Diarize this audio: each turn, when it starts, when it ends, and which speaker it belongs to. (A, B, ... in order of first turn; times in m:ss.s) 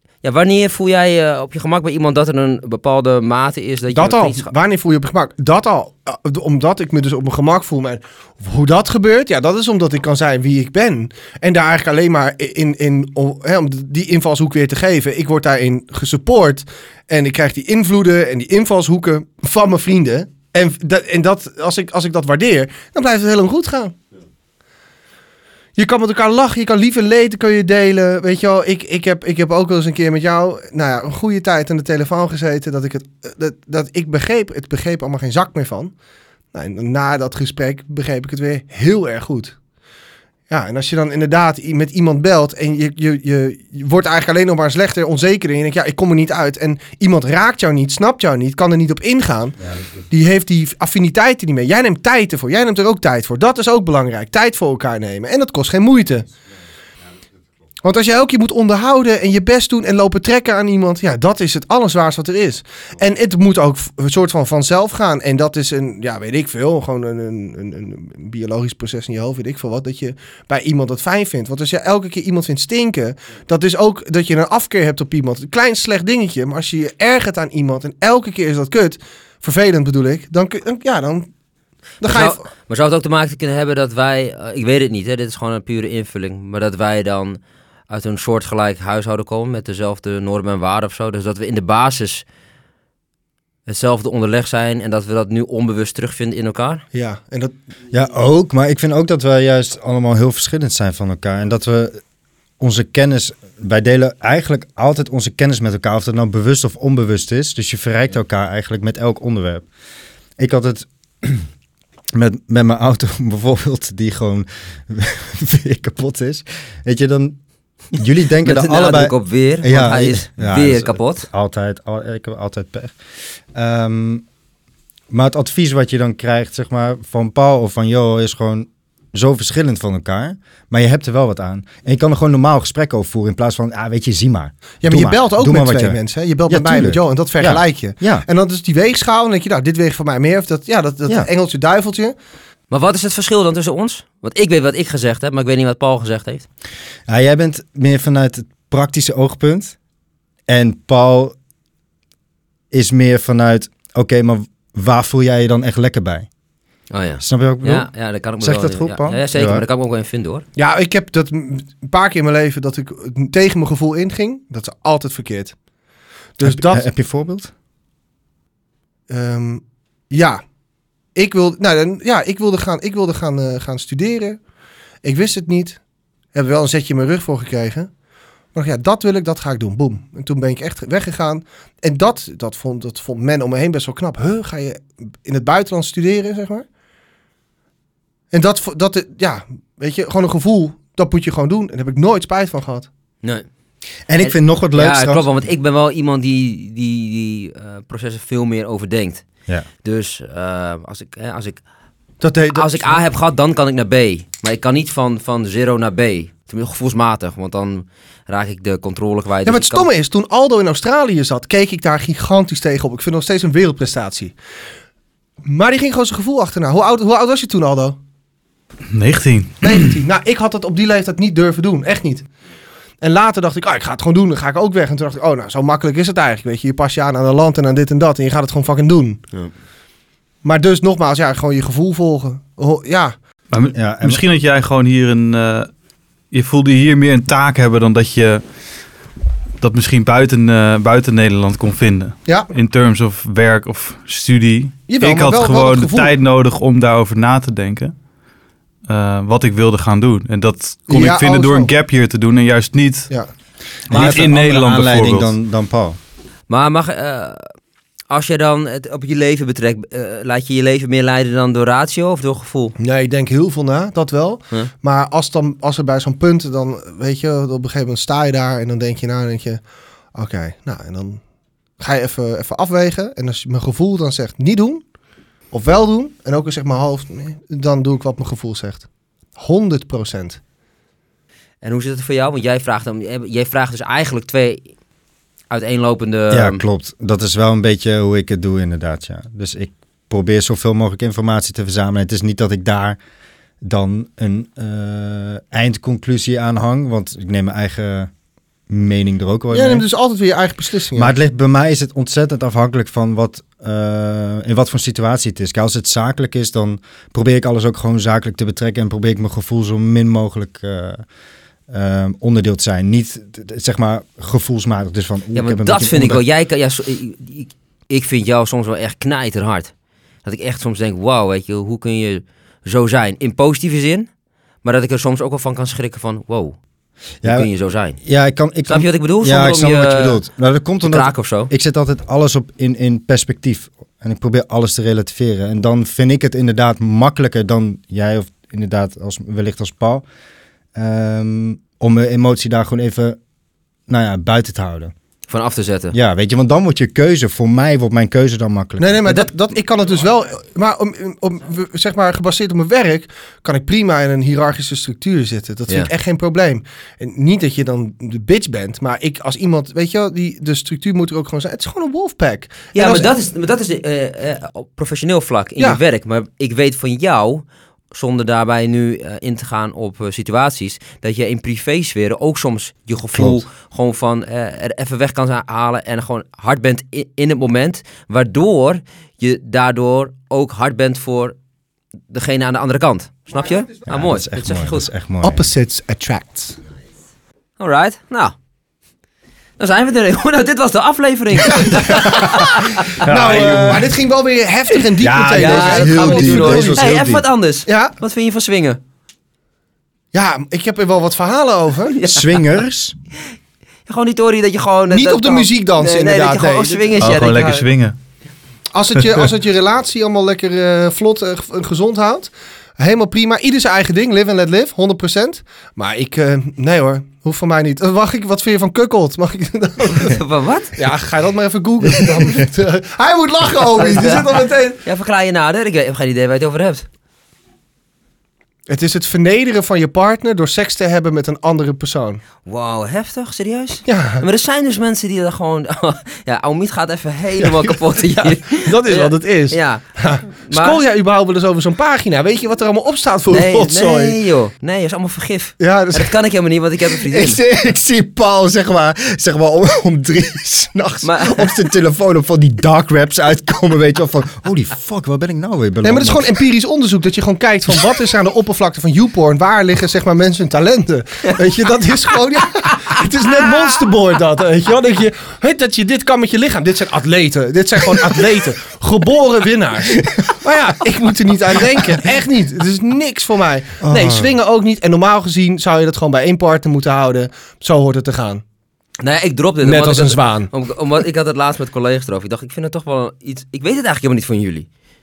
0:00.2-0:04.5 A
0:03.9-0:24.0 B
0:25.8-0:35.9 B
0:36.5-0:39.5 B
0:40.5-0:49.6 B
0:50.1-0:56.3 B
0:57.8-1:21.3 B
1:22.0-1:22.4 B
1:22.0-1:32.2 A
1:33.7-1:36.8 A
1:36.9-1:37.5 B
1:37.9-1:42.0 C
1:42.6-1:49.6 C
1:50.4-1:51.4 C
1:52.1-1:57.4 C
1:57.9-2:02.9 C
1:58.4-2:01.3 A
2:03.5-2:04.2 C
2:05.1-2:18.2 C
2:14.8-2:22.1 B
2:22.7-2:26.5 A
2:27.1-2:29.8 C
2:30.5-2:31.3 C
2:32.7-2:36.3 C
2:36.9-2:40.4 A
2:37.2-2:37.9 C
2:38.4-2:39.6 C
2:40.6-2:45.5 B
2:46.4-2:46.8 B
2:46.4-2:47.5 C
2:49.1-2:50.4 B
2:51.1-2:54.4 B
2:55.0-2:55.8 B
2:56.3-2:57.9 B
2:58.5-3:06.6 B
3:08.3-3:12.9 B
3:14.1-3:15.2 C
3:14.2-3:19.2 A
3:19.8-3:21.6 A
3:22.2-3:23.0 B
3:22.5-3:29.9 A
3:29.4-3:34.3 B
3:35.4-3:38.0 B
3:38.9-3:40.0 D
3:39.6-3:42.2 B
3:43.0-3:49.2 B
3:50.4-3:53.1 B
3:53.5-3:55.7 D
3:53.7-3:54.2 C
3:56.3-3:58.4 D
3:59.6-4:07.9 D
4:04.9-4:06.1 B
4:08.9-4:13.1 D
4:10.9-4:11.7 B
4:13.9-4:16.0 C
4:13.9-4:15.3 D
4:16.5-4:17.5 A
4:18.1-4:22.7 A
4:22.8-4:29.6 B
4:30.1-4:31.2 B
4:31.8-4:34.8 B
4:35.5-4:38.8 B
4:39.4-4:40.4 B
4:41.6-4:44.6 A
4:45.5-4:46.6 A
4:46.3-4:53.0 C
4:53.6-4:58.1 C
4:58.7-4:59.8 C
4:59.5-5:01.1 B
5:00.9-5:11.0 C
5:11.7-5:16.2 C
5:15.3-5:19.7 A
5:20.2-5:24.1 A
5:24.6-5:26.6 A
5:27.2-5:27.5 C
5:27.2-5:28.0 A
5:28.0-5:40.0 C
5:28.7-5:30.2 A
5:30.8-5:31.5 A
5:40.8-5:43.2 C
5:43.9-5:44.9 C
5:45.3-5:45.9 A
5:45.9-5:49.1 C
5:48.8-6:03.1 B
6:02.7-6:21.4 A
6:13.1-6:13.4 C
6:22.1-6:24.9 A
6:23.8-6:25.5 C
6:25.2-6:26.6 B
6:27.6-6:28.3 A
6:29.6-6:33.0 A
6:31.5-6:32.4 B
6:31.9-6:33.9 C
6:33.0-6:36.9 B
6:33.0-6:33.9 D
6:35.0-6:37.2 C
6:35.3-6:38.8 A
6:37.7-6:37.9 B
6:40.1-6:42.0 B
6:41.9-6:42.3 A
6:42.1-6:42.9 C
6:43.8-6:47.7 A
6:44.9-6:46.9 B
6:47.0-6:47.9 D
6:48.7-7:00.2 B
6:59.9-7:00.8 A
7:00.8-7:04.8 B
7:03.8-7:06.8 A
7:08.7-7:12.2 B
7:12.4-7:19.8 A
7:13.8-7:14.2 B
7:17.4-7:24.2 B
7:20.4-7:20.8 A
7:23.3-7:27.4 A
7:25.6-7:26.1 B
7:27.0-7:36.4 C
7:31.0-7:31.4 A
7:35.8-7:58.4 B
7:50.0-7:50.3 C
7:53.8-7:54.3 C
7:59.0-8:04.7 A
7:59.6-8:00.5 B